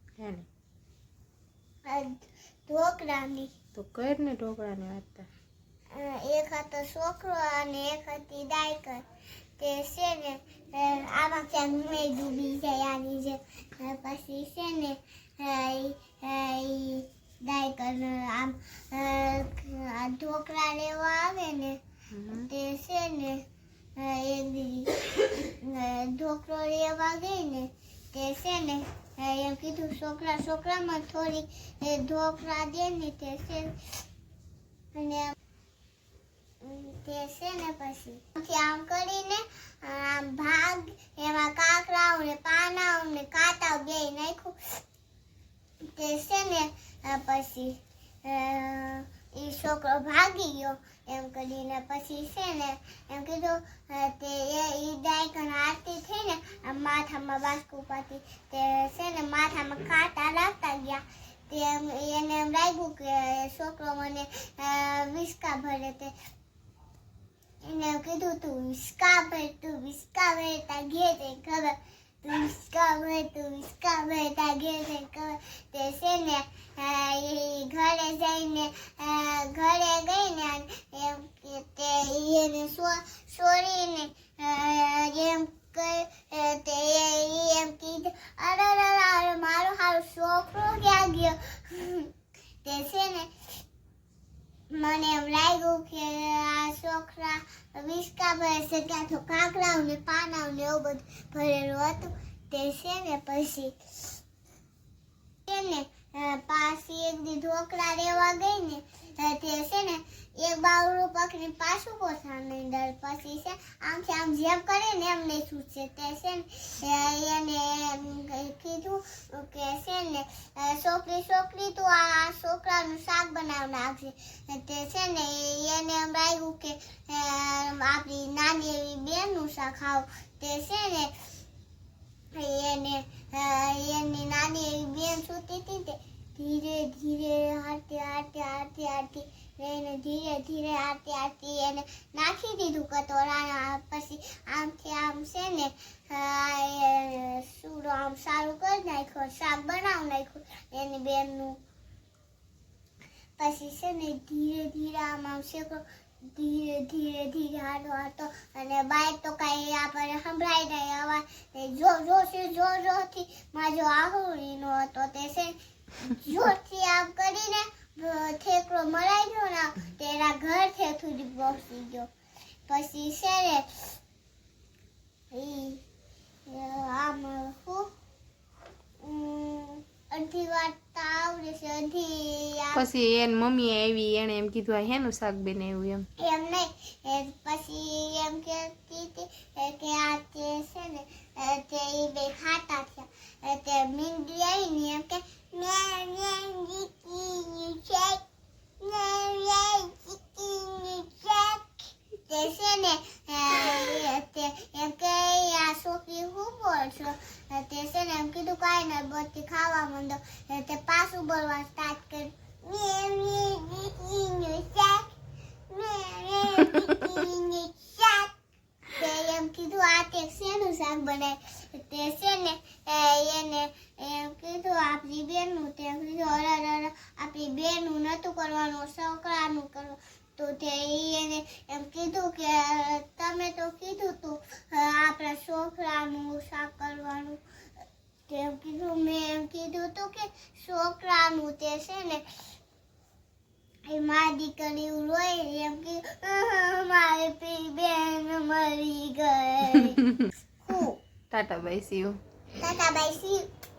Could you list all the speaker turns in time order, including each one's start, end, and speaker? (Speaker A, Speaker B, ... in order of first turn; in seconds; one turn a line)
Speaker A: 0.2-0.4
Speaker B: 1.9-3.5
Speaker A: 3.7-5.3
Speaker B: 5.9-9.1
Speaker B: 9.6-33.7
Speaker A: 22.1-22.5
Speaker B: 34.9-35.3
Speaker B: 36.6-44.6
Speaker B: 45.9-66.1
Speaker B: 67.6-92.1
Speaker B: 92.6-93.3
Speaker B: 94.7-104.2
Speaker B: 105.5-131.1
Speaker B: 132.3-151.6
Speaker B: 153.4-172.1
Speaker B: 172.7-173.9
Speaker B: 175.3-175.8
Speaker B: 176.5-177.9
Speaker B: 179.0-182.8
Speaker A: 182.7-186.1
Speaker B: 186.2-198.2
Speaker B: 198.8-215.1
Speaker B: 215.7-218.3
Speaker B: 218.9-237.4
Speaker B: 238.3-242.2
Speaker B: 243.9-250.0
Speaker B: 250.6-251.0
Speaker A: 251.3-252.2
Speaker B: 252.6-253.4